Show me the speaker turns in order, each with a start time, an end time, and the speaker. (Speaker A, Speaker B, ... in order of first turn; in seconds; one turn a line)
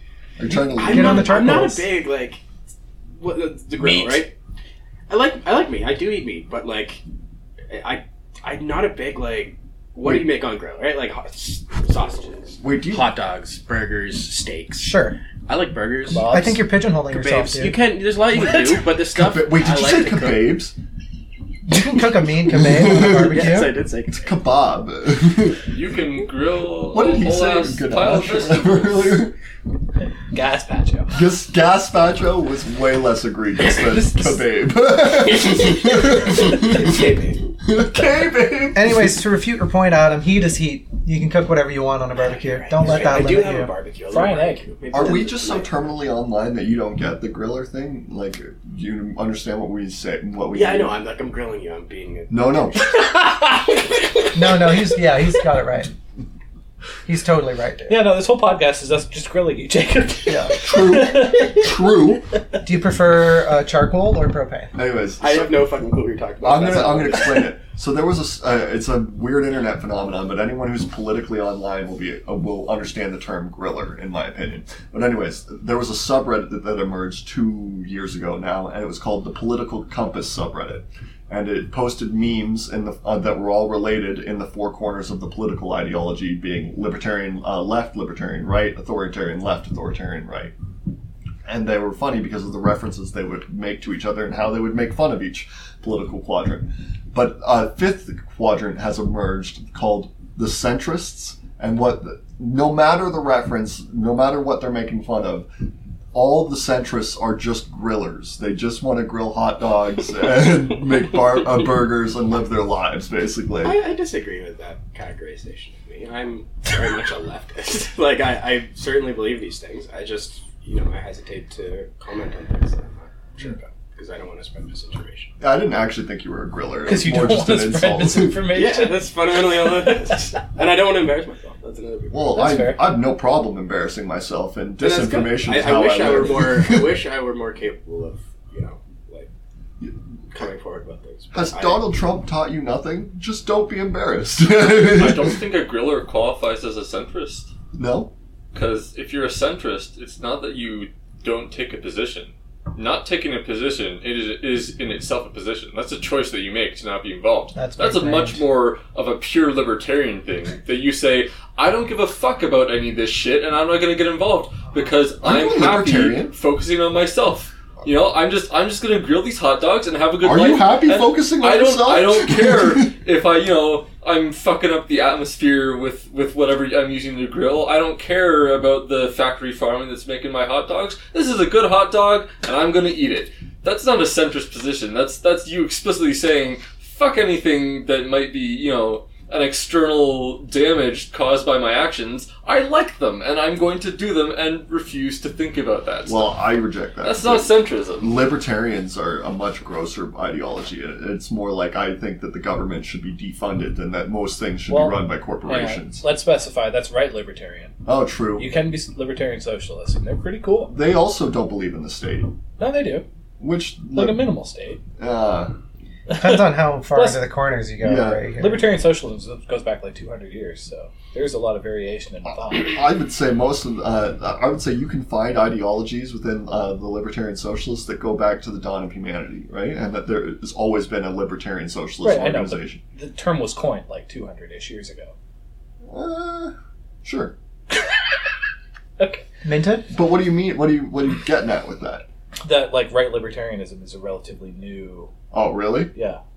Speaker A: 0.4-1.7
Speaker B: 0.5-1.9
Speaker C: 0.7-2.4
Speaker C: 3.2-4.3
Speaker D: 3.8-4.3
Speaker C: 5.1-7.0
Speaker C: 7.7-16.6
Speaker A: 12.6-13.1
Speaker B: 14.8-15.2
Speaker D: 16.1-16.6
Speaker B: 16.2-17.8
Speaker C: 17.1-20.6
Speaker D: 18.4-18.8
Speaker A: 19.1-20.8
Speaker B: 21.7-23.7
Speaker A: 22.4-23.5
Speaker C: 22.9-24.4
Speaker A: 24.1-25.6
Speaker E: 25.7-29.3
Speaker A: 26.9-29.3
Speaker D: 30.3-31.2
Speaker A: 31.1-39.2
Speaker D: 33.6-34.4
Speaker C: 35.3-37.5
Speaker B: 38.7-43.7
Speaker C: 42.2-45.9
Speaker D: 44.1-44.6
Speaker A: 44.9-51.0
Speaker C: 50.5-54.9
Speaker A: 52.3-52.8
Speaker B: 54.3-55.9
Speaker B: 57.1-58.1
Speaker D: 57.9-61.9
Speaker B: 60.3-60.7
Speaker A: 60.6-62.3
Speaker B: 62.6-64.7
Speaker A: 64.7-65.6
Speaker C: 65.2-67.6
Speaker A: 66.4-90.5
Speaker A: 91.5-105.5
Speaker A: 106.1-113.8
Speaker C: 113.6-125.3
Speaker A: 125.4-128.4
Speaker D: 126.8-129.1
Speaker C: 128.5-132.7
Speaker A: 132.1-136.9
Speaker D: 132.3-132.8
Speaker C: 134.8-139.3
Speaker C: 140.3-141.8
Speaker A: 141.3-145.4
Speaker E: 144.8-147.5
Speaker A: 147.7-148.1
Speaker E: 148.5-196.3
Speaker B: 157.6-158.4
Speaker A: 165.2-166.3
Speaker A: 170.2-172.9
Speaker A: 196.1-206.0
Speaker E: 197.0-198.1
Speaker D: 204.7-207.8
Speaker A: 207.8-208.6
Speaker D: 208.4-210.7
Speaker A: 210.7-212.4
Speaker D: 212.6-213.1
Speaker A: 213.4-214.3
Speaker D: 213.9-214.8
Speaker A: 215.0-215.5
Speaker D: 216.1-217.2
Speaker B: 216.1-218.7
Speaker A: 217.8-218.3
Speaker D: 218.4-222.8
Speaker A: 222.2-232.8
Speaker D: 232.0-235.1
Speaker A: 235.9-237.3
Speaker D: 239.0-239.2
Speaker B: 239.4-239.9
Speaker A: 239.9-242.1
Speaker D: 242.4-245.1
Speaker A: 245.3-245.9
Speaker D: 245.9-246.2